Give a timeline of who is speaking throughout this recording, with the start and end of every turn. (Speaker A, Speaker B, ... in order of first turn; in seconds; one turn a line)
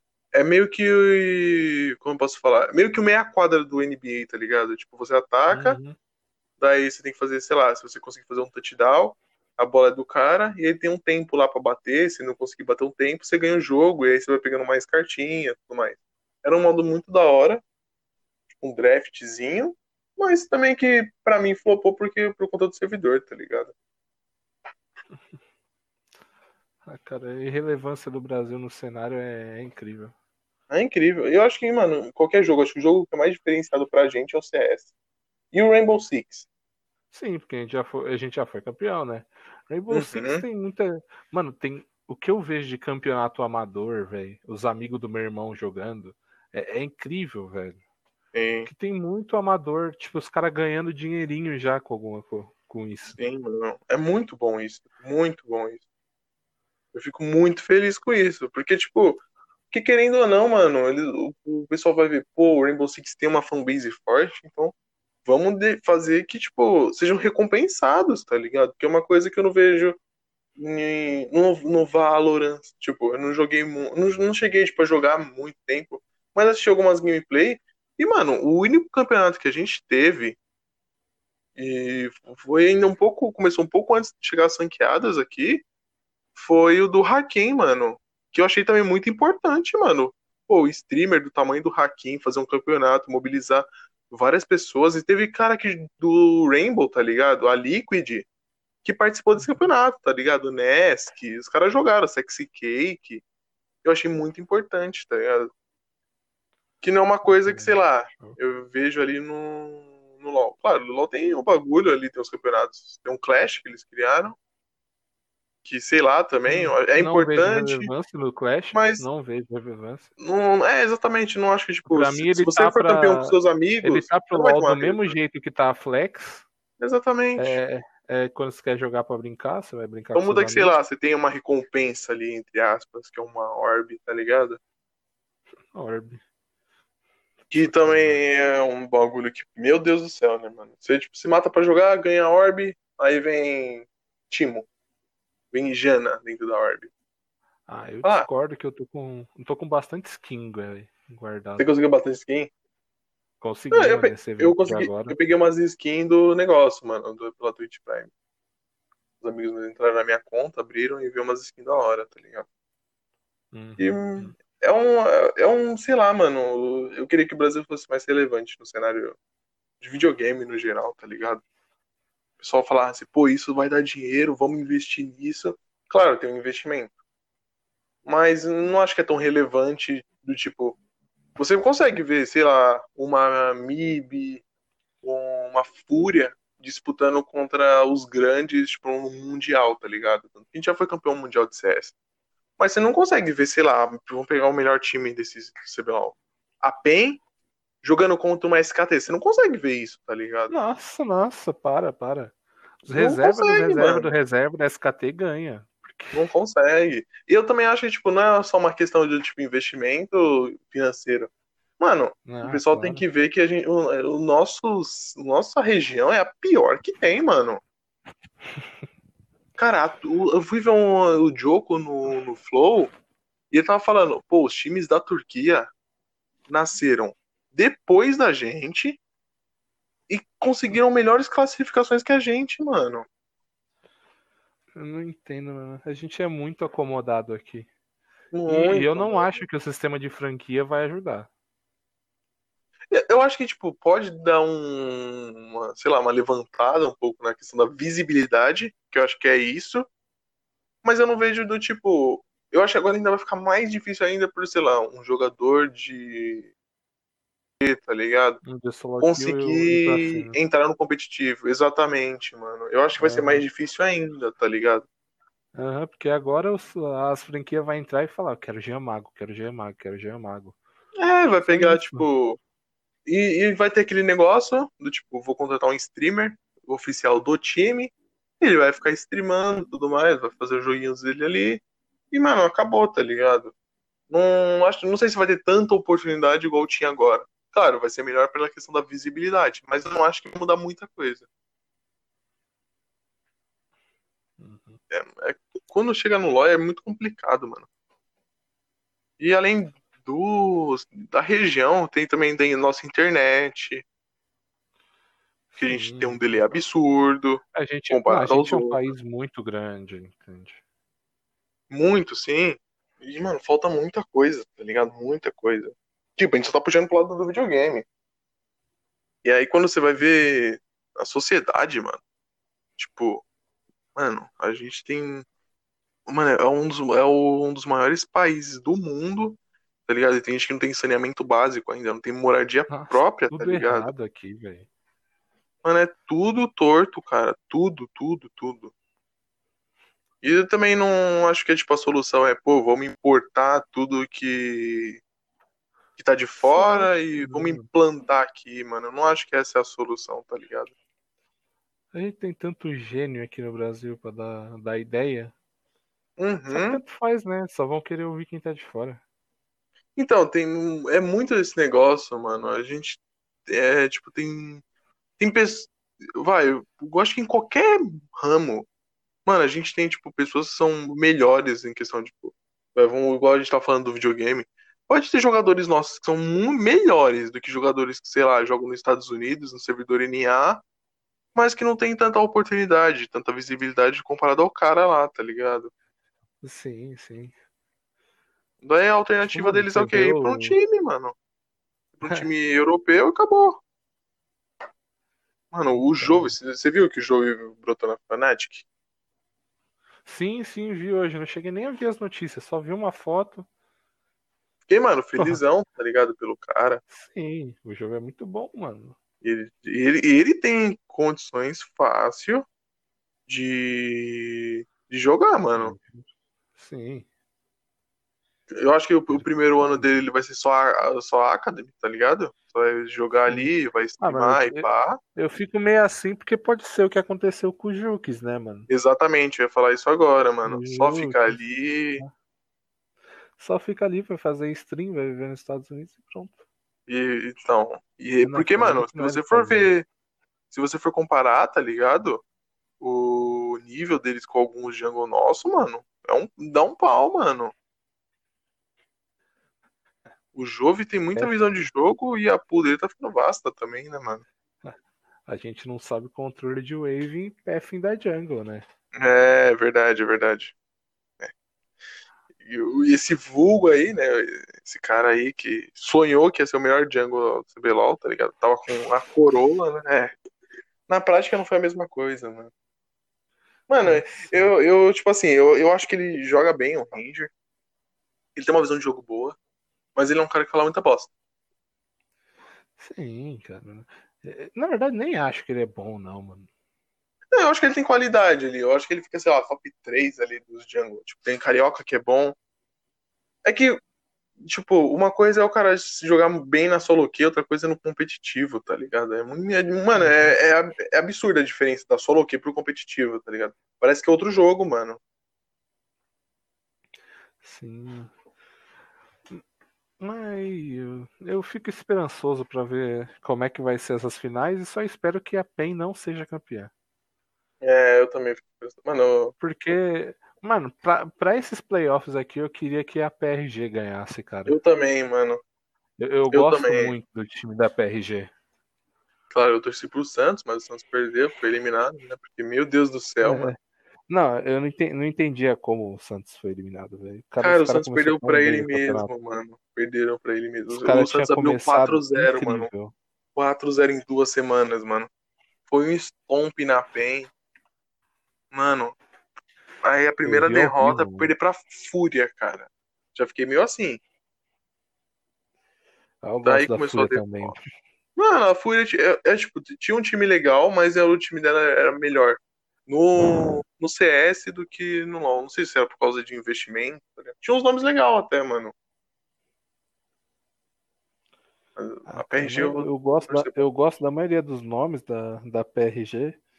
Speaker A: 0.3-5.8
Speaker B: 5.5-6.0
Speaker A: 6.6-17.6
Speaker A: 18.6-23.7
Speaker B: 26.9-30.1
Speaker A: 30.7-34.9
Speaker A: 35.5-36.5
Speaker B: 37.1-47.8
Speaker A: 39.9-40.4
Speaker A: 48.3-48.7
Speaker B: 48.6-53.2
Speaker A: 53.2-55.8
Speaker A: 56.9-64.7
Speaker A: 65.2-70.0
Speaker A: 70.6-80.4
Speaker A: 81.5-85.6
Speaker A: 86.4-98.3
Speaker A: 98.8-103.2
Speaker B: 99.4-99.7
Speaker A: 103.8-105.5
Speaker A: 106.8-114.4
Speaker B: 107.3-108.4
Speaker A: 115.6-117.9
Speaker B: 116.5-120.1
Speaker A: 118.7-119.0
Speaker A: 120.2-125.1
Speaker B: 121.9-126.5
Speaker A: 126.8-127.6
Speaker B: 127.4-130.8
Speaker A: 130.1-134.6
Speaker B: 135.7-136.2
Speaker A: 137.5-144.7
Speaker B: 137.6-138.2
Speaker A: 145.5-146.9
Speaker B: 147.7-151.7
Speaker A: 151.6-152.5
Speaker B: 153.4-155.2
Speaker A: 153.7-158.1
Speaker A: 159.2-162.5
Speaker B: 163.5-164.4
Speaker A: 163.8-169.2
Speaker A: 169.8-171.4
Speaker A: 172.4-176.9
Speaker A: 178.1-180.8
Speaker A: 181.4-184.4
Speaker A: 185.0-191.9
Speaker A: 192.6-197.2
Speaker A: 197.8-200.5
Speaker B: 200.5-206.2
Speaker A: 202.9-204.1
Speaker A: 206.1-217.6
Speaker B: 212.2-213.0
Speaker A: 219.6-222.9
Speaker A: 223.5-225.7
Speaker A: 226.5-229.0
Speaker A: 230.1-233.1
Speaker B: 234.8-237.7
Speaker A: 238.3-239.4
Speaker B: 238.4-241.3
Speaker A: 242.9-249.9
Speaker A: 250.8-256.5
Speaker A: 257.6-258.4
Speaker B: 258.4-260.4
Speaker A: 259.0-264.9
Speaker B: 263.0-263.4
Speaker B: 265.5-270.6
Speaker A: 271.0-272.4
Speaker B: 271.4-272.1
Speaker A: 273.1-283.5
Speaker A: 284.1-291.3
Speaker B: 294.4-294.8
Speaker A: 294.9-297.7
Speaker A: 299.2-303.8
Speaker B: 305.5-306.2
Speaker A: 305.6-308.8
Speaker B: 307.5-310.6
Speaker A: 311.7-317.9
Speaker A: 319.2-322.0
Speaker A: 322.8-323.2
Speaker A: 323.9-325.2
Speaker A: 326.1-333.9
Speaker B: 332.7-334.7
Speaker A: 335.6-338.7
Speaker A: 340.2-345.0
Speaker A: 346.0-350.7
Speaker B: 346.4-347.6
Speaker B: 351.9-355.3
Speaker A: 356.2-356.8
Speaker B: 356.5-359.0
Speaker A: 359.9-364.6
Speaker A: 365.2-368.7
Speaker A: 369.2-380.6
Speaker A: 381.4-385.7
Speaker B: 386.4-387.3
Speaker A: 388.6-391.1
Speaker B: 389.3-390.6
Speaker A: 392.0-393.6
Speaker A: 395.5-398.6
Speaker B: 395.9-396.3
Speaker B: 400.1-403.4
Speaker A: 404.7-406.8
Speaker B: 406.9-408.9
Speaker A: 409.2-412.5
Speaker A: 413.3-415.7
Speaker B: 415.5-416.0
Speaker B: 416.6-417.1
Speaker A: 418.5-425.0
Speaker B: 419.1-419.9
Speaker B: 423.3-428.7
Speaker A: 428.7-432.0
Speaker B: 430.4-431.4
Speaker B: 433.4-436.4
Speaker A: 436.9-439.9
Speaker B: 438.2-439.7
Speaker A: 440.5-442.2
Speaker A: 442.8-447.5
Speaker A: 450.3-454.2
Speaker B: 455.3-458.6
Speaker A: 458.9-460.6
Speaker A: 462.4-470.1
Speaker A: 470.9-472.5
Speaker A: 473.7-477.3
Speaker B: 473.8-474.5
Speaker A: 478.4-479.4
Speaker A: 479.9-481.1
Speaker B: 482.8-486.5
Speaker A: 487.3-492.3
Speaker A: 493.4-493.8
Speaker A: 494.4-505.0
Speaker B: 499.9-500.3
Speaker B: 507.4-508.1
Speaker B: 510.0-516.7
Speaker A: 517.6-519.3
Speaker B: 519.4-524.6
Speaker A: 524.5-525.4
Speaker B: 526.0-528.3
Speaker A: 526.3-526.9
Speaker A: 529.3-533.5
Speaker B: 533.2-533.6
Speaker B: 534.1-539.1
Speaker A: 537.4-542.7
Speaker B: 540.7-542.9
Speaker A: 543.4-545.1
Speaker A: 545.7-547.3
Speaker A: 548.5-549.0
Speaker A: 549.8-554.0
Speaker B: 550.2-551.3
Speaker B: 556.2-557.6
Speaker A: 556.4-557.5
Speaker A: 558.1-568.7
Speaker A: 571.8-573.5
Speaker B: 572.1-576.4